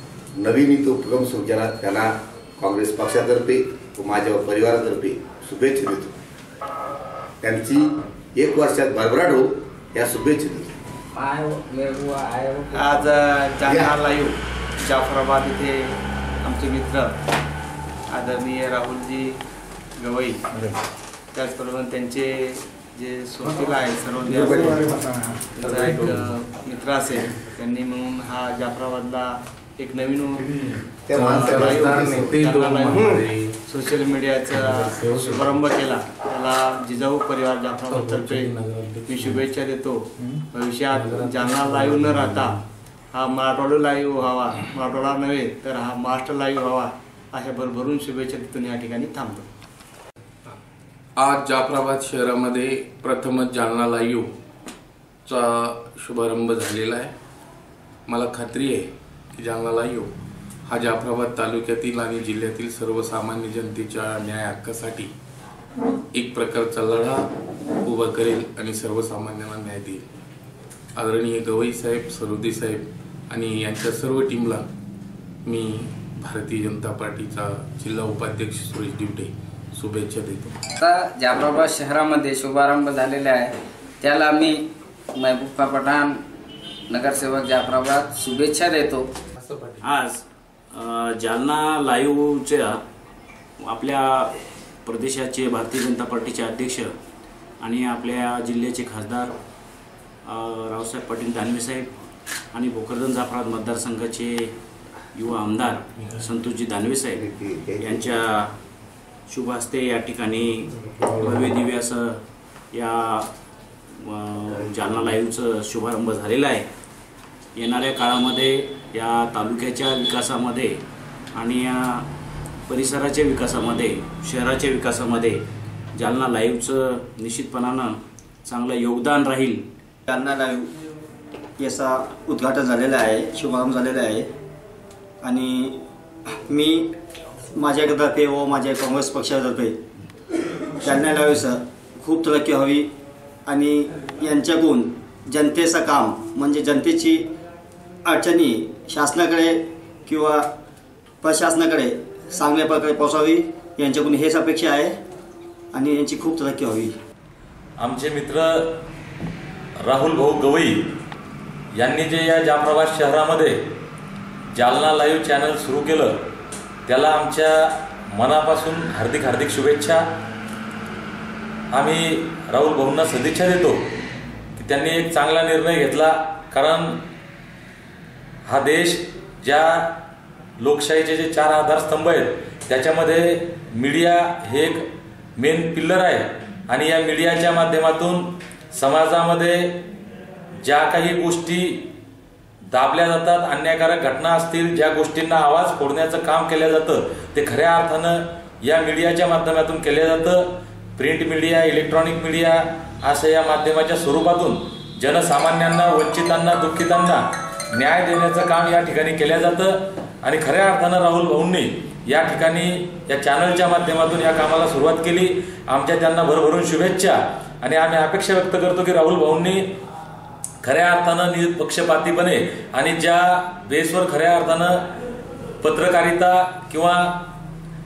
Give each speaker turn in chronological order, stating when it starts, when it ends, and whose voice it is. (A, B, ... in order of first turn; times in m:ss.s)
0:00.4-0:06.2 A
0:07.4-0:10.7 A
0:11.2-0:13.1 B
0:12.7-0:17.1 C
0:13.7-0:13.9 A
0:18.1-0:19.4 C
0:20.0-0:20.4 C
0:21.3-0:24.9 C
0:25.6-0:26.2 D
0:25.6-0:30.5 C
0:31.1-0:32.3 A
0:31.1-0:38.5 C
0:31.2-0:33.5 D
0:34.5-0:35.6 D
0:37.9-0:39.4 D
0:39.0-0:42.6 C
0:40.9-0:42.6 D
0:43.1-0:49.5 C
0:51.2-0:54.3 D
0:55.3-0:57.1 D
0:58.1-1:00.1 D
1:00.7-1:05.1 D
1:06.1-1:07.3 D
1:07.8-1:10.0 D
1:11.0-1:14.7 D
1:15.4-1:20.6 D
1:20.8-1:23.5 B
1:21.3-1:21.6 E
1:24.0-1:24.5 B
1:25.2-1:26.1 B
1:26.9-1:27.6 E
1:26.9-1:28.9 B
1:29.4-1:29.8 D
1:29.8-1:32.8 E
1:33.7-1:36.9 E
1:37.6-1:39.3 E
1:40.2-1:41.9 E
1:42.5-1:44.6 E
1:45.2-1:47.2 E
1:47.1-1:48.2 A
1:47.8-1:48.5 E
1:49.3-1:50.6 E
1:51.2-1:52.2 E
1:52.7-1:53.3 E
1:54.0-1:56.7 E
1:57.6-2:00.8 E
2:01.3-2:02.1 E
2:02.7-2:05.4 E
2:06.0-2:09.7 E
2:10.1-2:10.7 F
2:11.6-2:14.3 F
2:15.2-2:15.8 F
2:16.5-2:16.9 F
2:17.5-2:19.8 F
2:20.8-2:22.9 F
2:23.5-2:27.3 F
2:28.0-2:30.5 F
2:31.2-2:35.0 F
2:35.7-2:37.0 F
2:37.8-2:38.8 G
2:39.8-2:41.0 G
2:41.8-2:43.6 G
2:44.5-2:46.2 G
2:46.9-2:50.1 G
2:51.7-2:54.0 G
2:54.6-2:57.0 G
2:58.5-3:00.0 G
3:00.6-3:04.9 G
3:05.4-3:09.8 G
3:10.6-3:11.9 G
3:12.7-3:39.7 G
3:40.6-3:44.9 G
3:45.6-3:47.3 G